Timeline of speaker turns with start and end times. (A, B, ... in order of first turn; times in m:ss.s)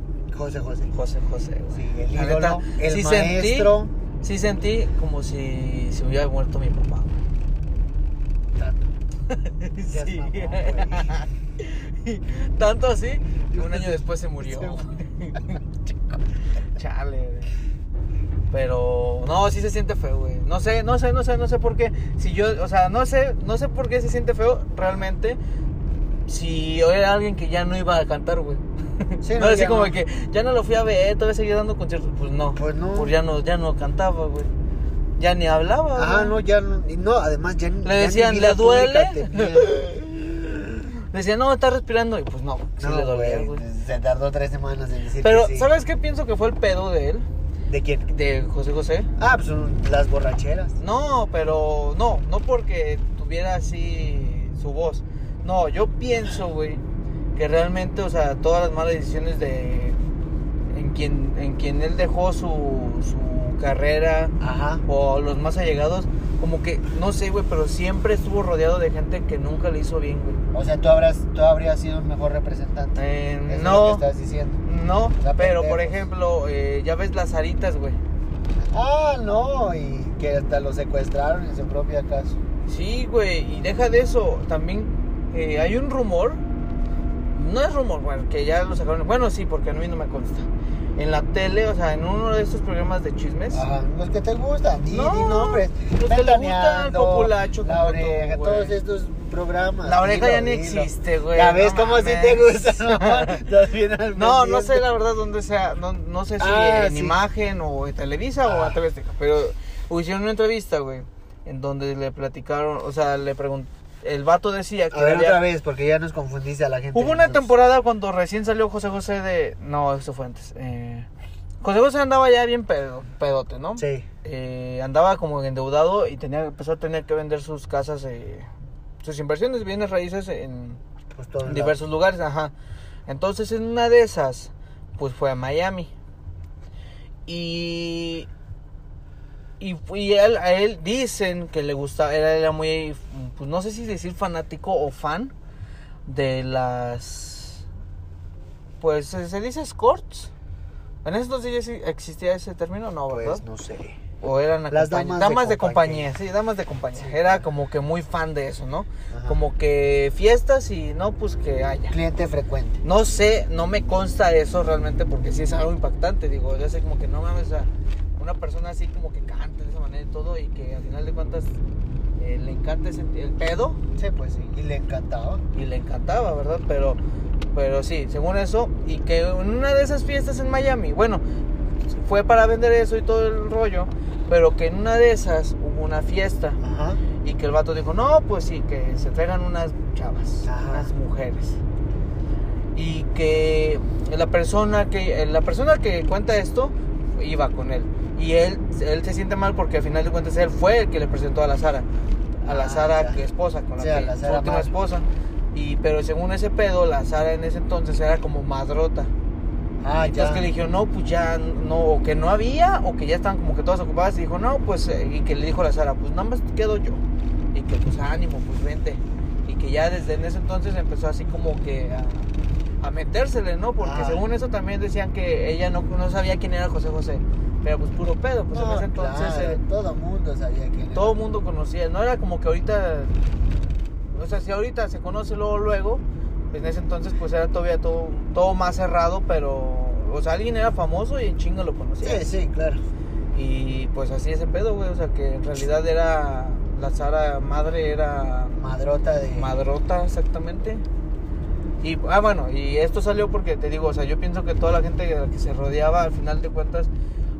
0:00.3-0:00.9 A
0:00.9-0:07.2 B
0:01.7-0:03.9 A
0:08.6-0:08.9 A
0:09.3-0:15.6 B
0:09.9-0:11.2 A
0:13.5-0:14.8 A
0:16.8-0:17.5 B
0:18.5-0:25.4 B
0:26.3-0:34.5 B
0:29.2-0:30.0 A
0:32.6-0:33.1 A
0:35.2-0:36.4 B
0:36.0-0:39.8 A
0:37.8-0:40.3 B
0:41.1-0:43.6 B
0:42.8-0:45.7 A
0:45.2-0:47.3 B
0:47.7-0:48.1 A
0:48.1-0:49.1 B
0:49.2-0:50.8 A
0:50.8-0:56.8 B
0:57.4-1:00.0 B
1:00.7-1:04.4 B
1:04.4-1:04.8 A
1:04.9-1:10.4 B
1:10.5-1:14.6 A
1:13.0-1:14.1 B
1:14.6-1:18.0 B
1:15.2-1:16.0 A
1:18.6-1:22.4 A
1:22.7-1:26.4 B
1:27.3-1:33.6 B
1:33.5-1:44.9 A
1:34.9-1:38.8 B
1:39.9-1:43.4 B
1:44.1-1:55.4 B
1:46.4-1:47.2 A
1:48.4-1:48.8 A
1:54.9-1:57.5 A
1:56.9-2:01.1 B
2:01.6-2:08.5 B
2:03.8-2:04.1 A
2:09.0-2:10.8 B
2:11.1-2:11.8 A
2:11.4-2:12.5 B
2:13.1-2:15.9 B
2:17.3-2:18.3 B
2:19.6-2:25.3 B
2:26.1-2:27.6 B
2:28.8-2:30.3 B
2:31.0-2:33.4 B
2:33.1-2:34.0 A
2:34.2-2:42.0 B
2:34.7-2:36.1 A
2:37.0-2:37.4 A
2:39.1-2:39.4 A
2:41.9-2:42.8 A
2:42.8-2:51.6 B
2:52.2-2:53.8 B
2:54.0-2:55.4 A
2:55.5-2:57.0 B
2:57.5-3:01.2 B
3:01.9-3:06.6 B
3:06.6-3:07.0 A
3:07.2-3:11.6 B
3:10.5-3:10.9 A
3:12.7-3:21.9 B
3:22.4-3:29.1 B
3:22.5-3:23.2 A
3:23.8-3:24.7 A
3:29.8-3:30.5 A
3:30.0-3:37.0 B
3:37.5-3:42.3 B
3:42.8-3:49.6 B
3:43.8-3:44.2 A
3:48.5-3:51.2 A
3:50.9-3:53.2 B
3:54.1-4:02.3 B
4:02.0-4:02.8 A
4:03.3-4:08.6 B
4:08.5-4:09.5 A
4:09.4-4:10.8 B
4:11.8-4:16.9 B